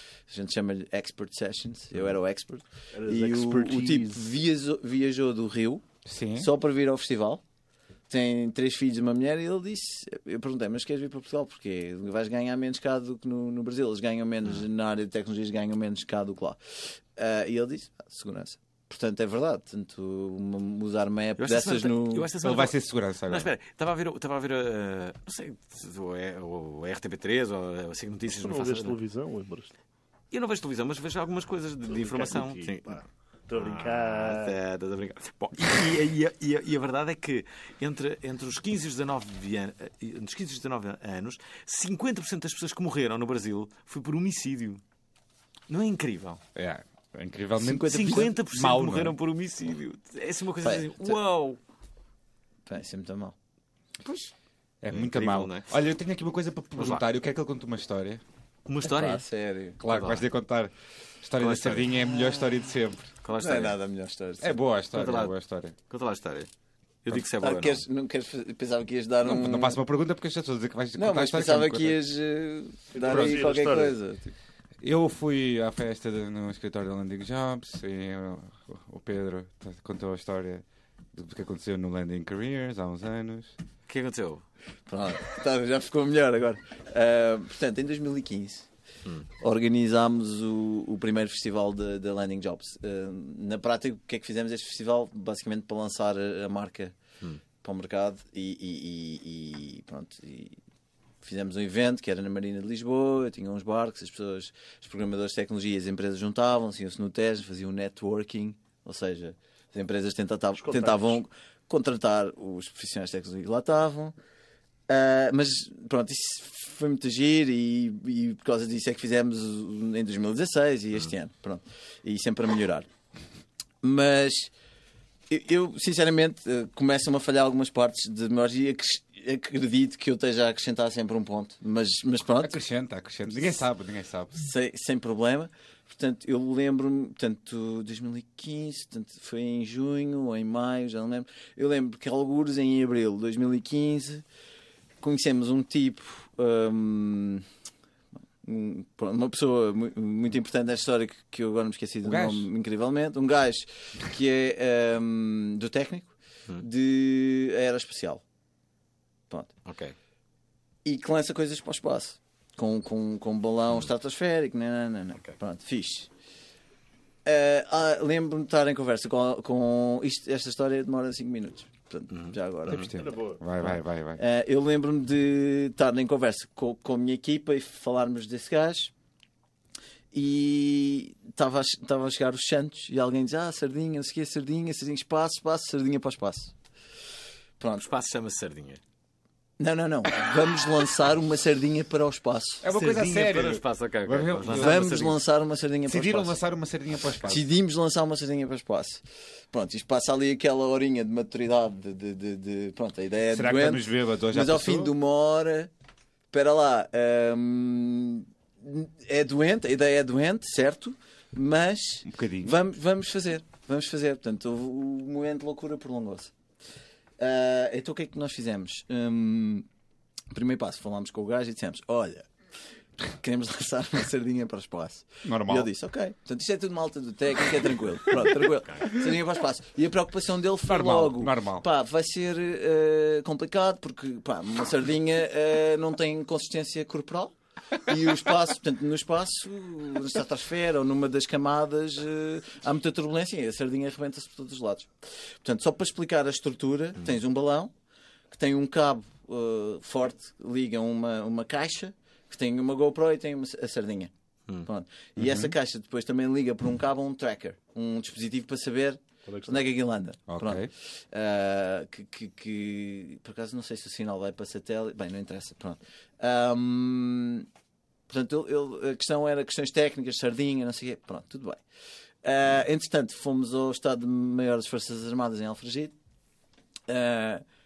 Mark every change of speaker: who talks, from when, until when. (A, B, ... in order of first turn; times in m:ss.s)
0:00.3-0:05.8 A
0:02.9-0:04.3 B
0:06.0-0:06.5 C
0:06.4-0:07.4 A
0:08.1-0:22.3 A
0:21.4-0:29.0 D
0:22.4-0:23.5 C
0:28.4-0:29.7 B
0:30.3-0:44.8 D
0:31.9-0:34.6 B
0:45.7-0:46.4 D
0:46.6-0:49.2 C
0:47.6-0:48.3 A
0:47.8-0:51.6 D
0:50.6-0:51.2 A
0:52.7-0:53.4 A
0:54.0-0:54.3 D
0:54.8-0:58.2 C
0:54.9-0:55.7 D
0:56.8-0:57.0 D
0:58.7-0:59.2 D
0:58.9-0:59.8 A
0:59.8-1:03.1 C
0:59.8-1:00.3 D
1:01.4-1:01.9 D
1:03.2-1:03.8 D
1:03.4-1:04.6 A
1:04.4-1:05.8 C
1:04.9-1:05.3 D
1:05.9-1:06.5 D
1:07.0-1:07.8 D
1:07.4-1:09.8 A
1:09.2-1:12.0 C
1:11.0-1:14.3 A
1:12.9-1:14.0 B
1:13.0-1:13.4 C
1:14.8-1:23.5 C
1:23.9-1:24.4 D
1:24.9-1:28.7 A
1:29.4-1:37.0 A
1:37.6-1:40.6 A
1:41.2-1:54.2 A
1:50.6-1:51.2 B
1:54.9-2:02.9 A
2:03.8-2:04.5 A
2:05.3-2:12.6 A
2:12.4-2:14.4 C
2:14.3-2:24.2 A
2:25.0-2:27.4 A
2:28.4-2:38.2 A
2:32.0-2:32.5 C
2:39.6-2:40.0 D
2:40.8-2:46.1 A
2:47.2-2:58.9 A
2:52.1-2:52.9 D
2:52.7-2:54.2 C
2:53.0-2:53.4 B
3:00.1-3:06.5 A
3:07.6-3:07.9 A
3:07.8-3:08.8 D
3:09.6-3:12.6 A
3:12.6-3:15.1 C
3:12.7-3:15.2 D
3:14.5-3:16.4 A
3:15.9-3:17.5 C
3:17.2-3:25.7 A
3:23.3-3:24.9 C
3:26.3-3:36.3 A
3:32.1-3:32.5 C
3:37.2-3:39.7 A
3:40.3-3:42.3 A
3:43.0-4:07.7 A
3:45.2-3:45.7 C
3:50.7-3:51.6 C
4:08.3-4:14.1 A
4:14.6-4:27.5 A
4:15.2-4:15.6 C
4:19.2-4:19.7 B
4:20.3-4:20.7 C
4:28.1-4:31.6 A
4:32.2-4:35.9 A
4:36.9-4:37.4 A